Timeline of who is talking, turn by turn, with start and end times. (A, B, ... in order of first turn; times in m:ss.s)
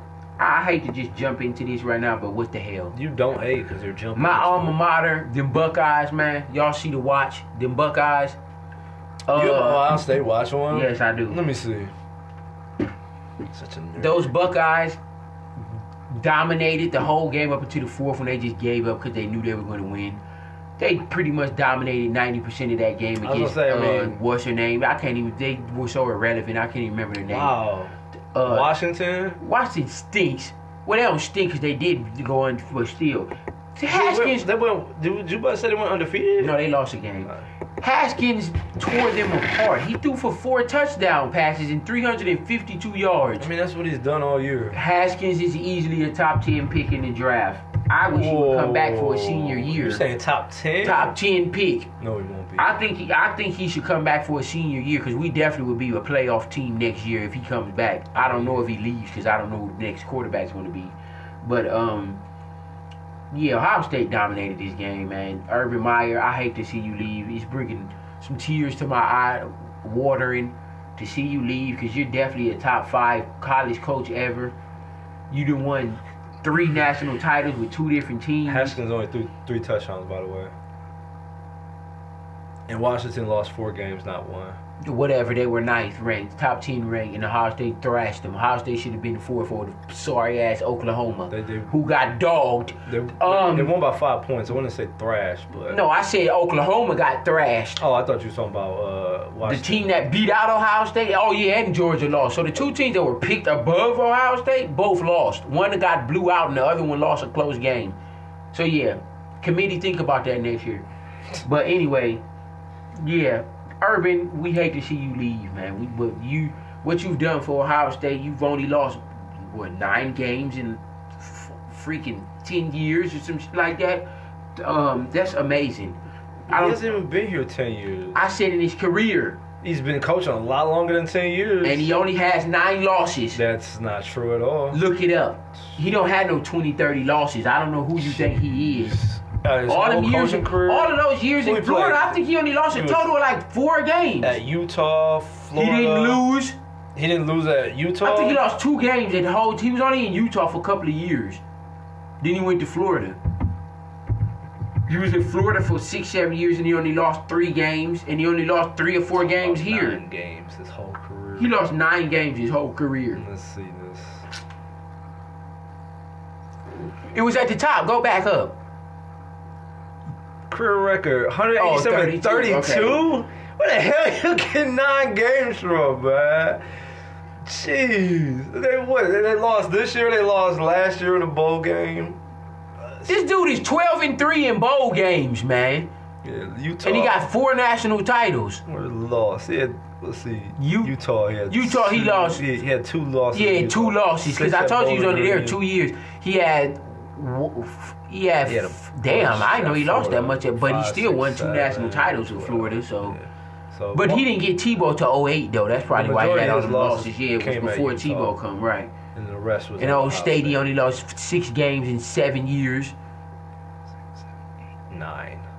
0:00.4-0:03.0 A
0:02.9-0:04.8 B
0:04.2-0:08.4 A
0:09.2-0:10.0 A
0:09.3-0:11.9 B
0:10.7-0:11.4 A
0:13.5-0:14.3 B
0:14.0-0:15.0 A
0:16.1-0:20.2 A
0:20.8-0:27.5 A
0:23.2-0:24.2 B
0:27.3-0:29.4 B
0:28.3-0:28.7 A
0:29.4-0:34.4 A
0:33.9-0:36.6 B
0:36.4-0:43.5 A
0:43.4-0:44.8 B
0:44.7-0:50.0 A
0:48.1-0:51.1 B
0:50.8-0:51.9 A
0:52.0-0:52.7 B
0:52.6-1:02.2 A
0:58.2-0:58.6 B
1:03.3-1:14.5 A
1:15.3-1:18.8 A
1:18.4-1:20.5 B
1:22.7-1:24.6 B
1:24.8-1:33.7 A
1:31.3-1:31.7 B
1:32.8-1:35.8 B
1:35.7-1:37.8 A
1:37.8-1:39.9 B
1:39.4-1:48.0 A
1:48.5-1:50.8 A
1:51.4-1:52.2 A
1:52.9-2:07.0 A
2:06.5-2:08.2 B
2:08.1-2:09.4 A
2:09.6-2:12.0 B
2:11.6-2:13.4 A
2:13.3-2:14.8 B
2:14.7-2:19.0 A
2:18.0-2:23.1 B
2:19.7-2:24.4 A
2:24.2-2:26.2 B
2:25.5-2:26.6 A
2:26.9-2:28.4 B
2:28.0-2:31.4 A
2:32.2-2:33.2 A
2:34.9-2:40.0 A
2:39.1-2:41.5 B
2:41.4-2:43.2 A
2:43.1-2:44.2 B
2:47.1-2:48.6 A
2:50.5-2:56.6 B
2:51.6-2:53.1 A
2:57.4-3:02.2 B
3:02.8-3:03.2 B
3:03.1-3:05.9 A
3:06.2-3:07.3 B
3:06.8-3:08.6 A
3:08.6-3:15.6 B
3:10.6-3:10.9 A
3:11.5-3:12.4 A
3:13.3-3:23.2 A
3:18.4-3:24.3 B
3:23.9-3:28.9 A
3:25.9-3:28.4 B
3:29.1-3:30.6 B
3:29.8-3:33.0 A
3:34.0-3:34.3 B
3:34.9-3:35.4 B